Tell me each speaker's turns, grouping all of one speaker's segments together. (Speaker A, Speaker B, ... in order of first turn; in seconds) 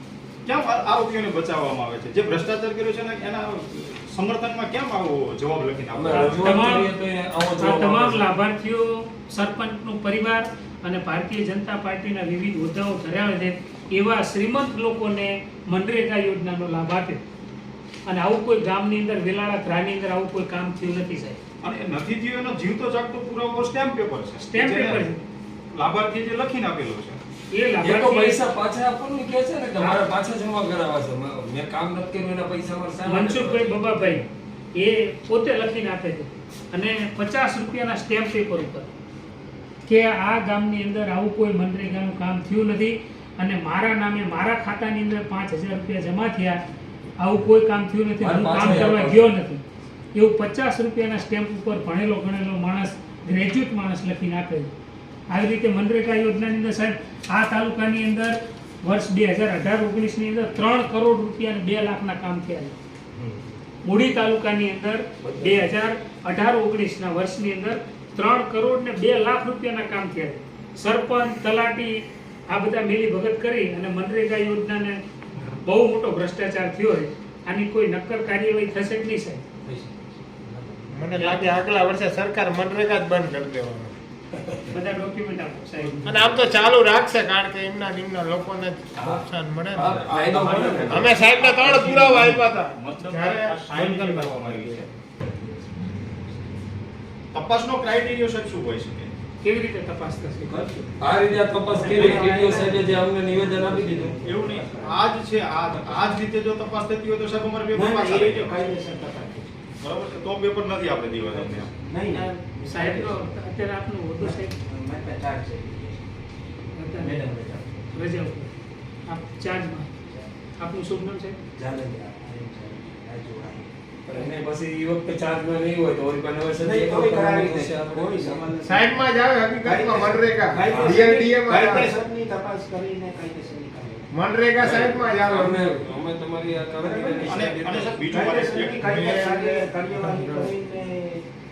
Speaker A: 0.5-6.5, 21.6-25.1, 25.8-27.2, 92.2-94.9, 97.3-99.1, 101.9-102.2, 104.2-108.8, 109.8-111.7, 137.2-138.9
Speaker B: 5.9-8.2, 27.8-33.8, 48.2-49.3, 63.2-63.4, 65.2-65.6, 80.5-80.8, 89.0-92.3, 101.0-104.2, 124.1-128.4, 130.7-131.0, 134.6-138.1
Speaker C: 6.1-6.9, 7.6-17.2, 18.1-21.4, 24.5-25.2, 27.5-28.4, 33.0-38.9, 39.9-46.6, 47.2-49.6, 50.1-54.7, 55.3-62.8, 63.9-75.0, 75.5-79.4, 84.7-86.3, 99.4-100.6, 101.9-102.6, 112.7-114.5, 116.8-117.3, 117.9-118.5, 119.1-119.9, 120.6-121.4
Speaker D: 80.9-83.9, 86.0-94.8, 128.6-131.9, 134.1-135.9, 138.8-140.5
Speaker E: 90.6-91.0, 100.4-105.0, 107.7-109.6, 111.2-113.3, 114.2-116.2, 116.9-117.9, 121.5-124.3, 126.6-128.9, 129.6-134.1, 136.8-137.4, 138.1-141.2